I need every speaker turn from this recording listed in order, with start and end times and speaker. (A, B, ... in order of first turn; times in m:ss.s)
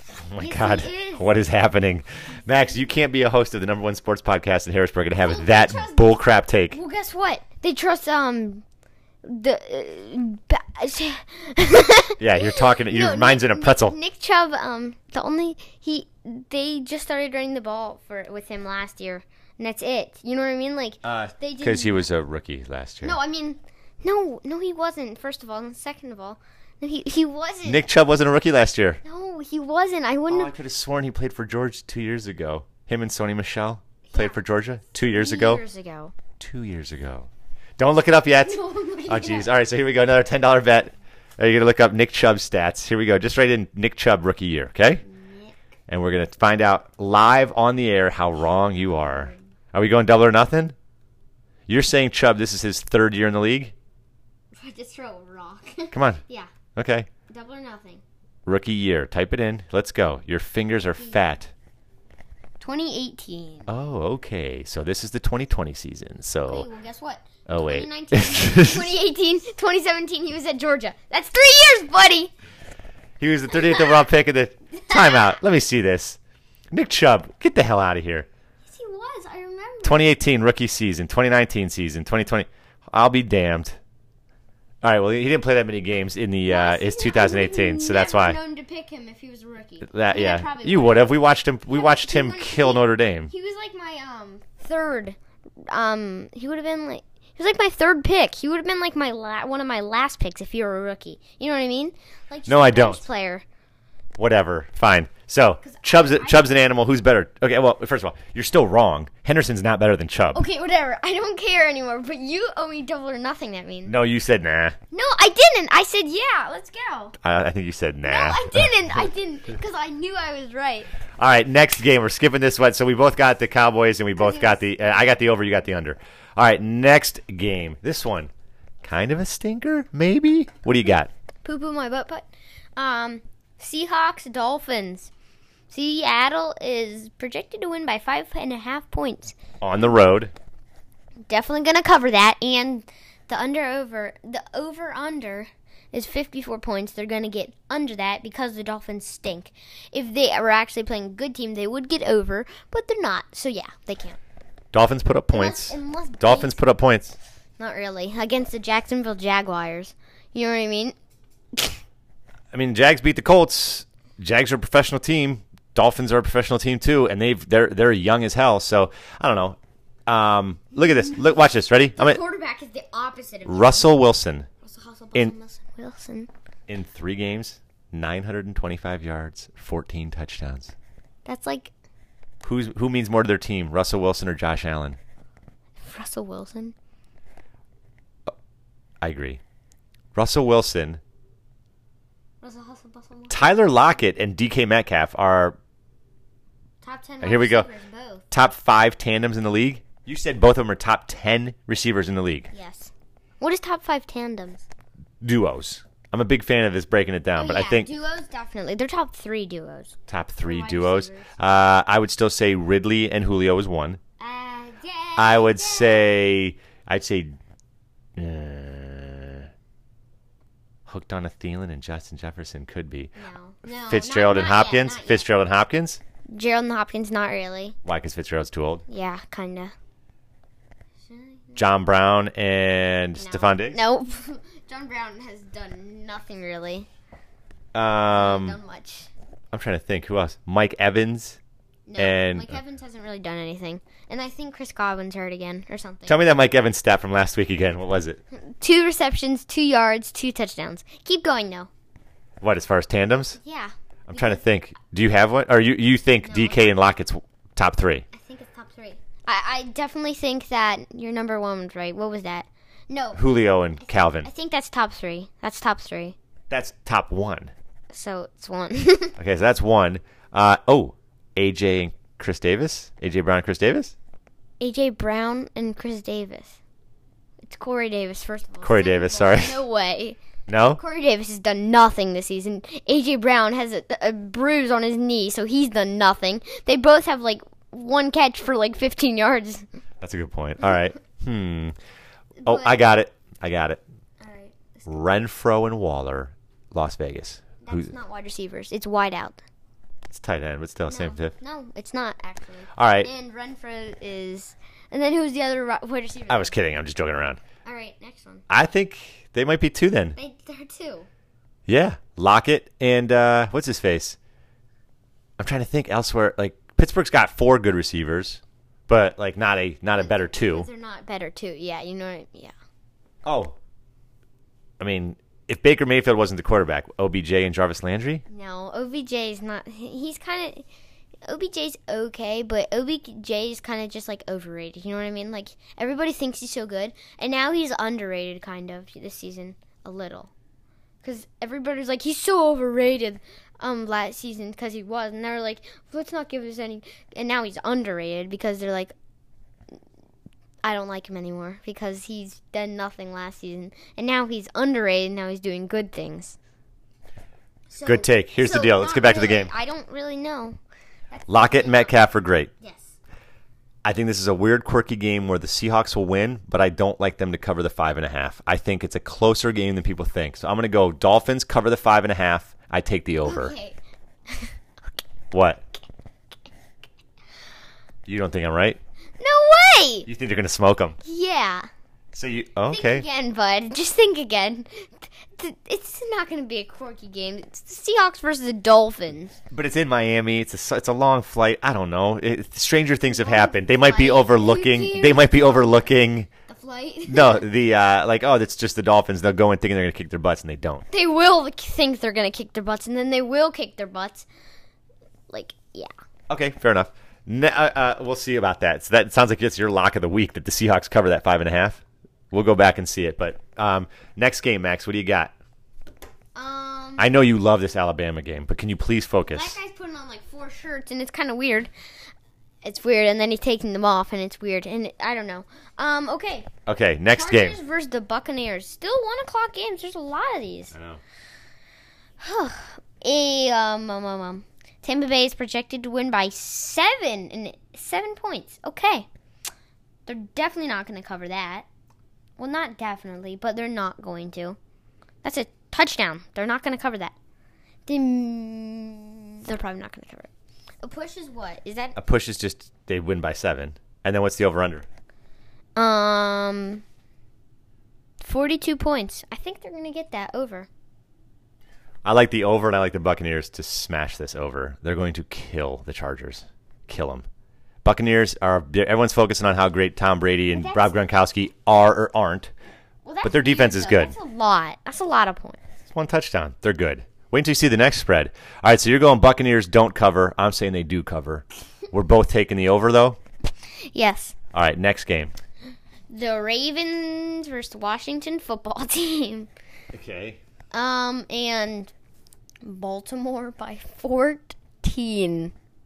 0:00.3-0:06.8 A
0:00.4-0:01.3 B
0:05.2-0:06.2 B
0:06.7-0:08.6 B
0:09.2-0:22.0 B
0:12.2-0:14.0 A
0:21.0-0:23.2 A
0:23.0-0:27.9 B
0:27.7-0:29.0 A
0:29.0-0:30.5 B
0:30.3-0:35.6 A
0:34.1-0:34.4 B
0:35.1-0:36.1 B
0:36.4-0:45.0 A
0:38.4-0:39.5 B
0:45.0-0:45.5 B
0:45.9-0:50.8 A
0:51.7-0:53.7 A
0:54.6-0:56.5 B
0:55.9-0:56.2 A
0:56.8-0:57.1 A
0:57.3-0:58.0 B
0:58.5-1:01.5 A
1:02.6-1:03.7 B
1:03.7-1:06.7 A
1:06.5-1:12.3 B
1:07.5-1:08.9 A
1:13.2-1:16.2 A
1:13.5-1:14.0 B
1:14.7-1:15.4 B
1:16.7-1:18.3 A
1:18.7-1:20.1 B
1:19.8-1:23.8 A
1:24.8-1:28.4 A
1:26.5-1:31.2 B
1:29.8-1:33.3 A
1:31.7-1:35.2 B
1:35.7-1:43.4 B
1:42.5-1:43.0 A
1:44.2-1:50.4 A
1:45.6-1:46.6 B
1:50.3-1:54.0 B
1:53.9-1:54.8 A
1:54.9-1:57.2 B
1:57.2-1:59.0 A
1:58.0-2:00.9 B
2:01.2-2:08.3 A
2:04.2-2:05.1 B
2:08.8-2:11.1 A
2:11.4-2:15.1 B
2:15.7-2:19.4 B
2:19.6-2:20.3 A
2:21.3-2:34.2 B
2:34.7-2:37.2 A
2:35.3-2:36.6 B
2:37.6-2:41.0 B
2:41.5-2:41.8 B
2:42.5-2:52.2 A
2:50.8-2:51.3 B
2:52.0-2:53.9 B
2:53.5-2:54.5 A
2:54.6-2:56.3 B
2:56.7-3:00.7 A
3:01.2-3:01.7 B
3:02.4-3:05.0 A
3:05.8-3:06.7 B
3:09.0-3:09.4 A
3:10.1-3:11.0 A
3:12.4-3:13.4 B
3:13.3-3:15.6 A
3:16.8-3:18.2 B
3:17.2-3:17.7 A
3:18.3-3:22.5 A
3:22.5-3:24.7 B
3:25.2-3:27.9 A
3:27.4-3:31.4 B
3:30.1-3:34.0 A
3:34.2-3:36.0 B
3:35.2-3:37.4 A
3:38.2-3:39.5 A
3:40.9-3:43.1 A
3:43.2-3:45.3 B
3:43.7-3:46.0 A
3:46.3-3:47.8 B
3:47.8-3:48.8 A
3:48.9-3:49.7 B
3:51.1-3:51.6 B
3:51.6-3:53.8 A
3:53.2-3:56.9 B
3:57.7-3:58.6 A
3:58.1-3:59.1 B
3:59.5-4:01.4 A
4:01.9-4:06.2 B
4:02.0-4:02.6 A
4:06.1-4:08.2 A
4:08.3-4:11.7 B
4:12.4-4:13.4 A
4:13.4-4:14.4 B
4:14.1-4:18.1 A
4:16.2-4:16.6 B
4:18.1-4:26.2 B
4:23.1-4:24.3 A
4:26.5-4:27.5 A
4:27.9-4:29.1 B
4:29.2-4:33.9 A
4:34.6-4:36.6 B
4:37.4-4:40.2 B
4:38.6-4:39.6 A
4:40.5-4:40.8 A
4:40.7-4:49.7 B
4:50.0-4:51.7 A
4:52.4-4:52.8 B
4:52.4-4:53.8 A
4:54.2-4:55.1 B
4:54.9-4:57.9 A
4:57.6-4:59.4 B
5:00.1-5:01.3 A
5:00.9-5:06.6 B
5:02.7-5:03.1 A
5:06.3-5:07.4 A
5:07.6-5:08.4 B
5:08.5-5:10.2 A
5:10.2-5:11.1 B
5:11.7-5:14.2 A
5:15.4-5:20.7 A
5:20.0-5:22.5 B
5:23.2-5:23.6 A
5:24.8-5:28.2 A
5:28.3-5:30.7 B
5:31.3-5:40.3 B
5:41.0-5:48.9 B
5:50.6-5:56.4 B
5:57.7-6:00.6 B
5:57.8-5:59.5 A
6:01.1-6:02.0 B
6:01.3-6:02.5 A
6:02.6-6:03.0 B
6:03.8-6:13.6 A
6:13.2-6:13.8 B
6:14.3-6:14.5 B
6:15.3-6:15.6 A
6:18.1-6:18.8 A
6:19.2-6:20.1 B
6:20.1-6:21.0 A
6:21.0-6:21.7 B
6:22.1-6:23.1 A
6:22.7-6:29.4 B
6:29.5-6:36.3 A
6:33.1-6:35.7 B
6:36.5-6:37.5 B
6:37.1-6:40.9 A
6:40.9-6:44.3 B
6:45.3-6:45.9 B
6:46.3-6:55.3 A
6:56.4-6:57.1 B
6:57.0-6:59.6 A
6:59.3-7:01.7 B
7:02.6-7:06.5 B
7:06.7-7:07.6 A
7:07.1-7:10.7 B
7:10.7-7:11.0 A
7:12.2-7:19.1 B
7:20.1-7:21.7 B
7:22.4-7:24.6 B
7:25.2-7:27.1 B
7:27.9-7:30.3 B
7:30.8-7:32.0 B
7:32.0-7:34.9 A
7:35.8-7:36.8 B
7:38.2-7:40.7 B
7:42.0-7:47.2 A
7:47.8-7:52.5 A
7:50.5-7:50.9 B
7:53.0-7:55.6 B
7:53.2-7:54.1 A
7:55.9-8:03.2 A
8:03.9-8:04.4 B
8:04.5-8:05.3 A
8:06.1-8:09.5 B
8:09.9-8:10.4 A
8:10.7-8:11.9 B
8:12.6-8:15.5 B